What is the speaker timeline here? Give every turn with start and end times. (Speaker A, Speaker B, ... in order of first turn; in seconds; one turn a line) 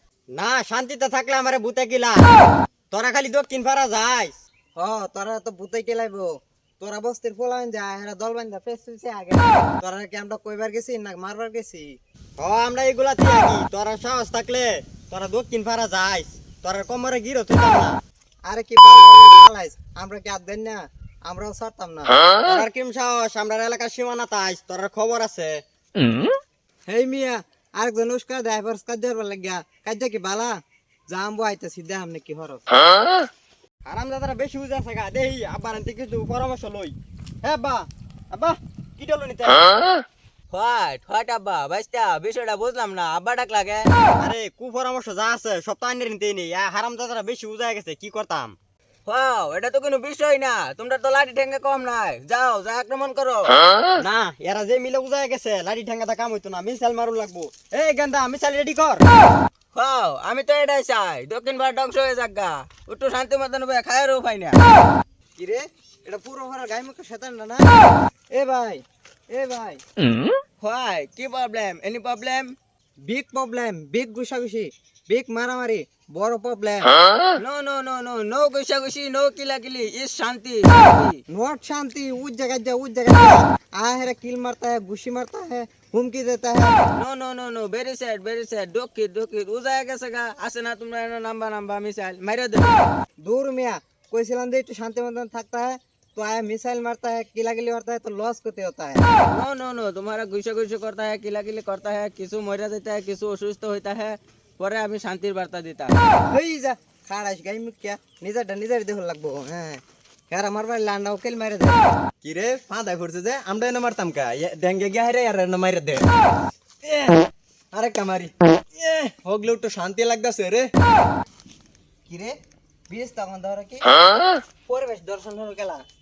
Speaker A: 0.3-2.3
Speaker A: 2.9-4.4
Speaker B: 4.8-11.9
Speaker A: 12.4-18.0
Speaker B: 18.5-22.2
Speaker A: 22.4-25.6
Speaker B: 26.9-30.5
Speaker B: 31.1-32.6
Speaker A: 33.9-39.8
Speaker C: 40.5-43.9
Speaker A: 44.2-48.6
Speaker C: 49.1-53.6
Speaker A: 54.0-59.0
Speaker C: 59.7-64.6
Speaker B: 65.4-67.7
Speaker B: 68.3-69.8
Speaker C: 70.6-72.5
Speaker B: 73.1-76.9
Speaker C: 77.3-81.2
Speaker B: 81.3-86.7
Speaker C: 86.9-92.8
Speaker B: 93.2-99.0
Speaker C: 99.3-105.9
Speaker B: 106.3-111.8
Speaker A: 112.2-116.0
Speaker A: 117.7-118.3
Speaker A: 118.8-120.7
Speaker B: 122.1-122.4
Speaker B: 122.9-124.0
Speaker B: 124.7-125.8